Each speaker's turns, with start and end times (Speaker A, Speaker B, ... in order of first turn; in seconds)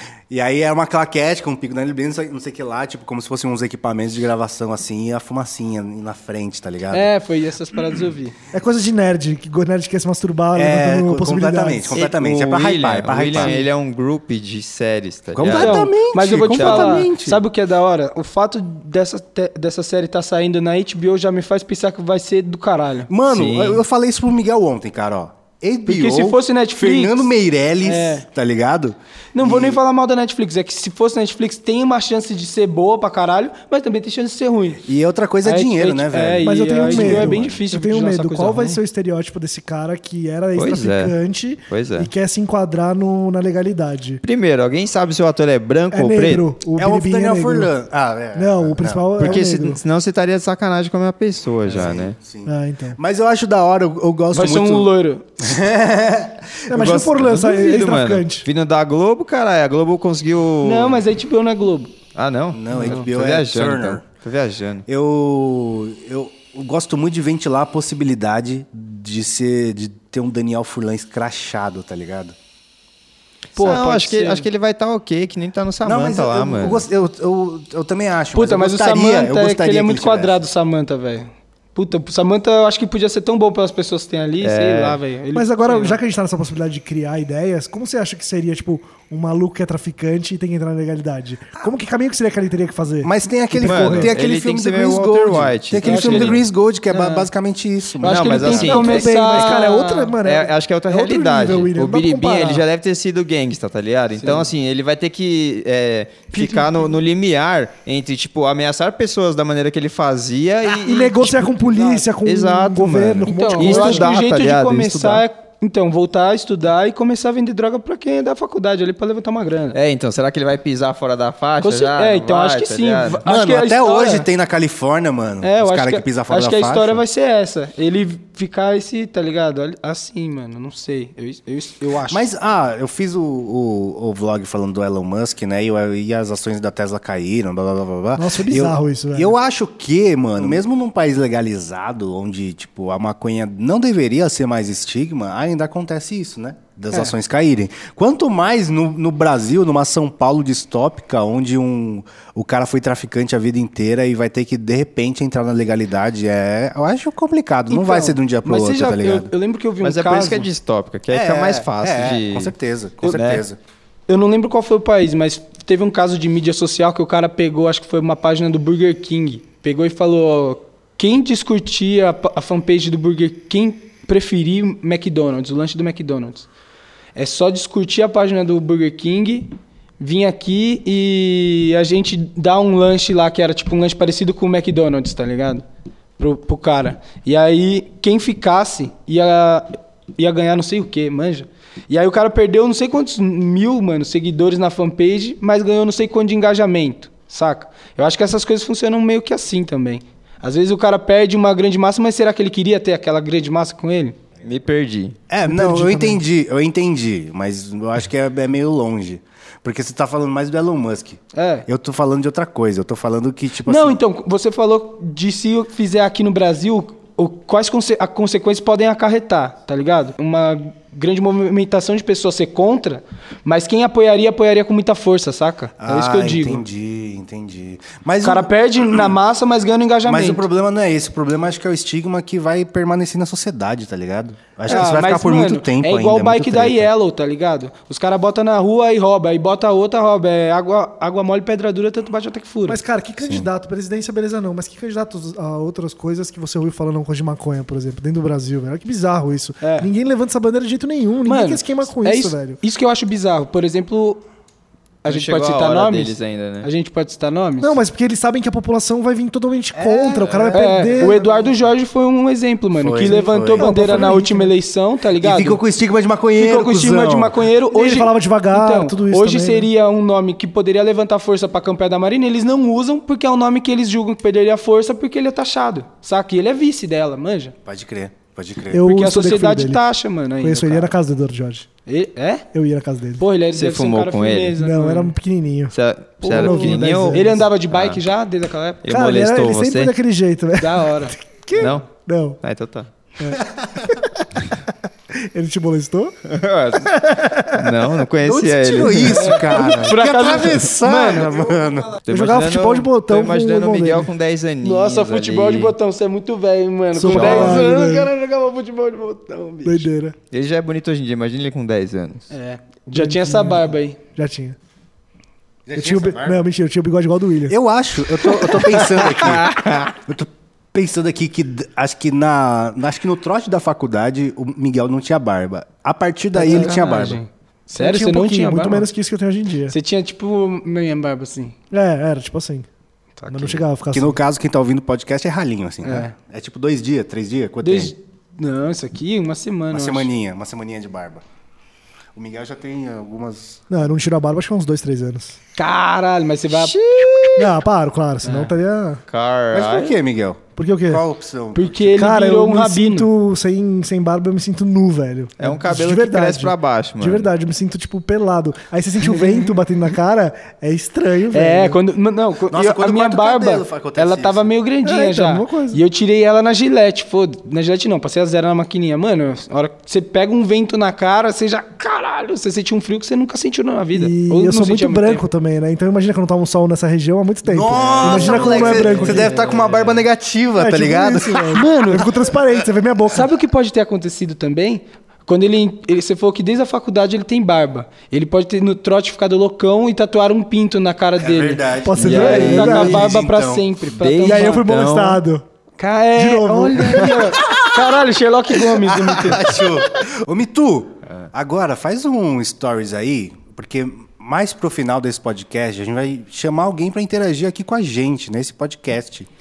Speaker A: 0.3-7.1, 10.6-13.6, 15.3-17.4, 23.1-29.8, 34.8-37.5, 46.7-49.1, 51.7-54.9, 55.4-57.0, 62.5-64.0, 64.9-72.3, 75.8-80.4, 93.0-98.8, 123.2-127.0, 132.1-159.3, 161.1-163.6, 205.3-214.0, 225.8-229.1, 230.0-236.9, 243.2-243.5, 259.7-261.4, 262.8-264.1, 265.2-267.4, 277.6-278.8, 293.4-293.9, 298.2-302.0, 315.6-316.4, 317.5-327.2, 333.9-337.9, 339.7-341.2, 342.1-343.6, 349.5-351.9, 362.5-364.5, 377.4-381.6, 391.2-393.7, 397.4-397.9, 398.7-409.3
Speaker B: 6.9-8.3, 13.3-13.6, 15.5-23.1, 25.9-27.3, 27.8-28.2, 29.3-34.9, 35.4-38.8, 54.3-55.4, 60.6-61.9, 73.5-74.5, 78.3-86.0, 95.8-97.3, 98.0-100.1, 104.2-104.5, 106.3-106.9, 113.3-119.8, 121.6-124.2, 125.4-132.2, 157.7-160.5, 164.1-176.5, 177.2-185.6, 186.2-204.2, 211.3-211.7, 213.6-226.6, 228.2-230.4, 234.7-242.8, 249.6-249.9, 251.2-254.2, 255.0-257.8, 260.5-265.6, 266.4-277.5, 278.8-280.9, 281.9-282.4, 283.2-285.1, 286.2-288.8, 290.6-291.1, 299.1-301.5, 304.6-309.9, 312.3-314.0, 326.3-328.9, 329.7-331.5, 333.2-333.6, 335.8-336.1, 337.6-340.1, 345.6-347.4, 348.2-348.5, 351.5-353.1, 361.3-375.2, 378.0-380.0, 381.5-382.1, 383.1-394.6, 395.8-399.7
Speaker C: 8.5-12.0, 36.4-44.2, 45.9-47.7, 48.3-49.8, 52.5-53.0, 56.7-58.5, 85.3-94.2, 98.5-102.6, 110.8-114.1, 138.2-139.3, 205.4-206.2, 242.7-252.6, 257.6-261.3, 263.1-264.5, 267.7-269.7, 278.7-279.8, 280.4-281.7, 282.5-283.2, 284.6-285.7, 286.3-287.4, 288.9-292.4, 293.2-294.3, 295.1-296.1, 296.8-297.8, 302.1-304.1, 306.9-308.1, 309.6-310.1, 312.9-314.6, 315.8-317.6, 326.4-326.7, 327.8-329.7, 331.7-332.7, 333.3-334.2, 343.7-345.4, 347.4-349.0, 350.6-351.0, 351.9-361.8, 364.8-365.8, 373.9-379.4, 380.6-383.3, 391.8-393.1, 394.2-395.4, 396.1-397.3
Speaker D: 11.9-17.1, 23.3-23.8, 40.5-41.1, 41.7-42.1, 44.2-46.5, 49.2-52.1, 56.8-61.0, 62.1-64.8, 73.6-76.8, 84.4-85.0, 93.6-96.4, 98.0-99.5, 100.2-115.2, 119.7-123.2, 159.8-162.5, 163.1-163.4, 204.4-205.2, 255.1-256.7, 283.5-284.6, 285.7-288.0, 288.8-289.9, 291.5-291.8, 292.4-292.9, 296.3-297.0, 297.5-299.6, 302.0-305.7, 307.1-307.6, 310.3-312.2, 318.9-319.9, 346.5-347.5, 349.1-350.0, 355.4-357.3, 392.0-393.1, 394.0-395.2